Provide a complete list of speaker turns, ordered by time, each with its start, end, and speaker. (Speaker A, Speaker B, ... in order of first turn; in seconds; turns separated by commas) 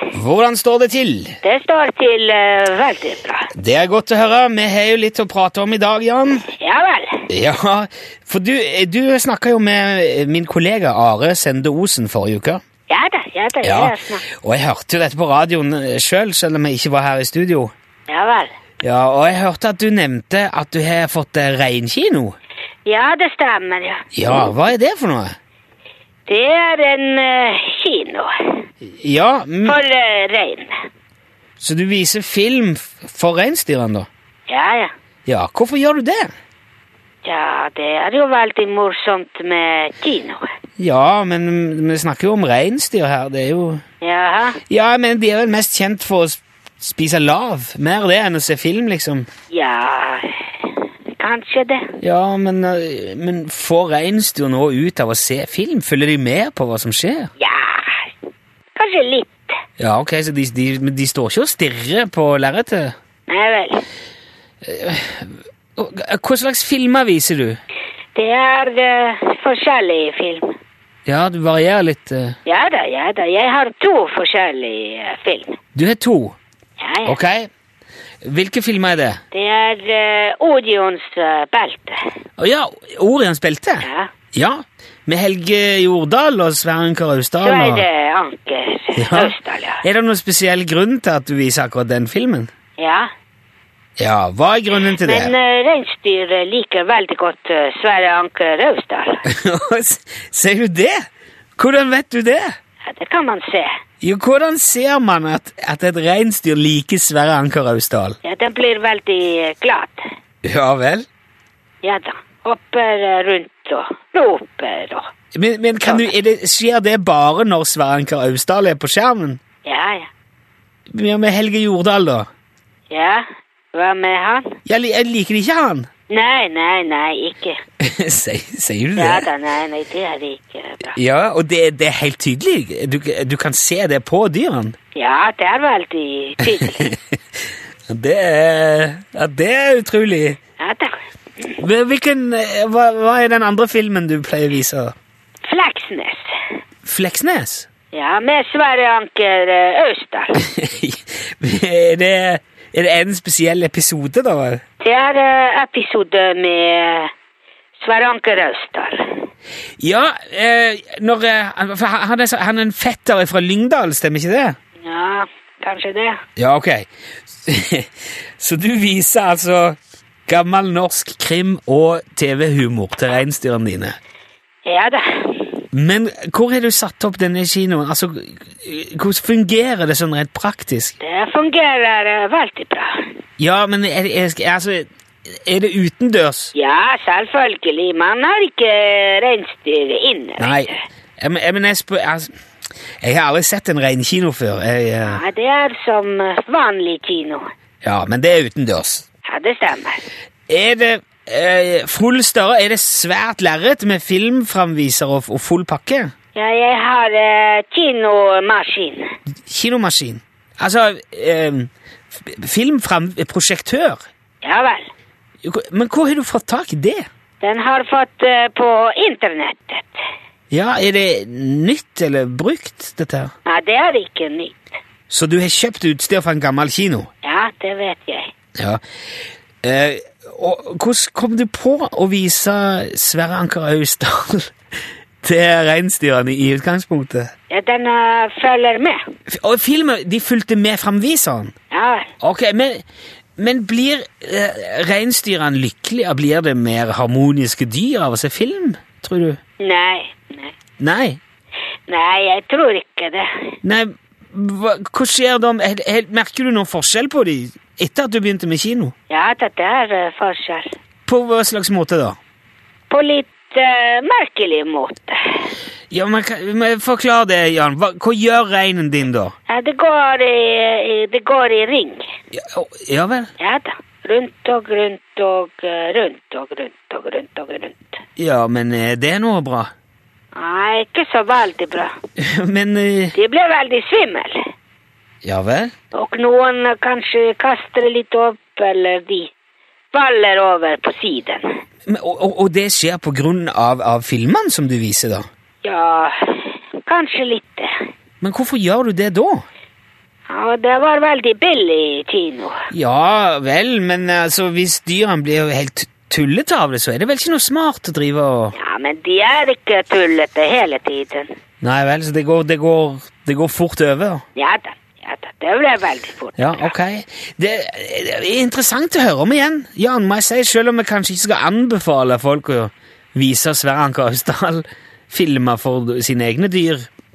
Speaker A: 0.1-1.4, Speaker B: 1.4-3.5, Speaker A: 3.5-6.5, Speaker B: 6.6-7.3, Speaker A: 7.3-12.6, Speaker B: 12.9-14.2, Speaker A: 13.6-17.7, Speaker B: 18.1-18.5, Speaker A: 18.8-22.4, Speaker B: 22.9-24.1, Speaker A: 24.1-25.4, Speaker B: 26.3-28.6, Speaker A: 29.0-29.8, Speaker B: 29.6-30.7, Speaker A: 31.6-34.1, Speaker B: 34.5-34.9, Speaker A: 35.3-36.3, Speaker B: 37.2-40.4, Speaker A: 40.8-43.8, Speaker B: 44.0-44.6, Speaker A: 44.7-49.3, Speaker B: 49.5-51.9, Speaker A: 52.0-57.3, Speaker B: 57.4-58.1, Speaker B: 58.8-59.5, Speaker A: 59.8-63.0, Speaker B: 63.3-63.8, Speaker A: 64.6-67.6, Speaker B: 68.2-70.5, Speaker A: 71.1-72.4, Speaker B: 72.5-75.6, Speaker A: 75.7-76.4, Speaker B: 76.8-77.2, Speaker A: 77.1-77.5, Speaker A: 78.2-79.2, Speaker B: 79.3-82.0, Speaker A: 82.4-87.8, Speaker B: 83.8-84.1, Speaker B: 87.4-89.8, Speaker A: 89.0-92.5, Speaker B: 92.8-93.1, Speaker A: 94.0-95.3, Speaker B: 94.8-99.2, Speaker A: 99.3-101.0, Speaker A: 101.6-102.5, Speaker B: 102.8-103.7, Speaker A: 104.0-108.2, Speaker B: 108.2-110.0, Speaker A: 110.5-111.1, Speaker B: 111.8-115.1, Speaker A: 115.3-119.4, Speaker B: 115.8-116.1, Speaker B: 119.7-120.1, Speaker A: 120.9-122.3, Speaker B: 122.9-124.6, Speaker A: 124.7-125.9, Speaker B: 126.1-127.6, Speaker A: 127.8-129.3, Speaker B: 129.0-131.0, Speaker A: 130.9-134.8, Speaker B: 134.9-136.9, Speaker A: 136.6-137.0, Speaker A: 137.9-140.4, Speaker B: 140.6-140.9, Speaker A: 141.6-144.9, Speaker B: 145.5-146.2, Speaker A: 146.8-147.7, Speaker B: 147.9-150.4, Speaker A: 150.4-154.6, Speaker B: 154.8-157.1, Speaker B: 157.8-159.3, Speaker A: 159.8-164.6, Speaker B: 164.8-166.2, Speaker A: 166.4-166.9, Speaker A: 167.4-174.0, Speaker B: 174.7-175.6, Speaker A: 175.7-181.0, Speaker B: 181.0-183.1, Speaker A: 183.4-186.5, Speaker B: 186.6-190.8, Speaker A: 190.4-192.3, Speaker A: 193.0-195.2, Speaker B: 195.1-197.5, Speaker A: 197.8-199.1, Speaker B: 199.3-200.1, Speaker A: 200.5-206.1, Speaker B: 206.3-209.1, Speaker A: 209.5-214.0, Speaker B: 214.4-214.9, Speaker A: 215.4-217.1, Speaker B: 217.4-220.0, Speaker A: 220.5-223.3, Speaker B: 223.5-224.6, Speaker A: 225.1-227.1, Speaker B: 227.2-228.3, Speaker A: 229.6-234.5, Speaker A: 235.2-237.3, Speaker B: 237.5-239.0, Speaker A: 239.3-241.5, Speaker B: 241.7-242.1, Speaker A: 242.2-242.8, Speaker A: 243.4-249.4, Speaker B: 249.6-250.5, Speaker A: 250.8-251.2, Speaker B: 251.9-253.3, Speaker A: 253.6-258.9, Speaker B: 259.1-260.7, Speaker A: 261.1-262.2, Speaker B: 262.9-265.5, Speaker A: 265.9-269.3, Speaker B: 269.5-272.1, Speaker A: 272.3-273.3, Speaker B: 273.4-278.0, Speaker A: 278.2-279.7, Speaker B: 280.4-282.0, Speaker A: 282.2-283.1, Speaker B: 283.1-284.4, Speaker A: 285.2-285.7, Speaker B: 285.9-289.3, Speaker B: 289.9-291.5, Speaker A: 291.9-295.3, Speaker B: 295.6-297.7, Speaker A: 298.2-299.4, Speaker B: 300.3-302.6, Speaker A: 302.7-308.6, Speaker B: 308.6-311.3, Speaker A: 311.6-314.2, Speaker B: 314.4-316.7, Speaker A: 316.4-326.9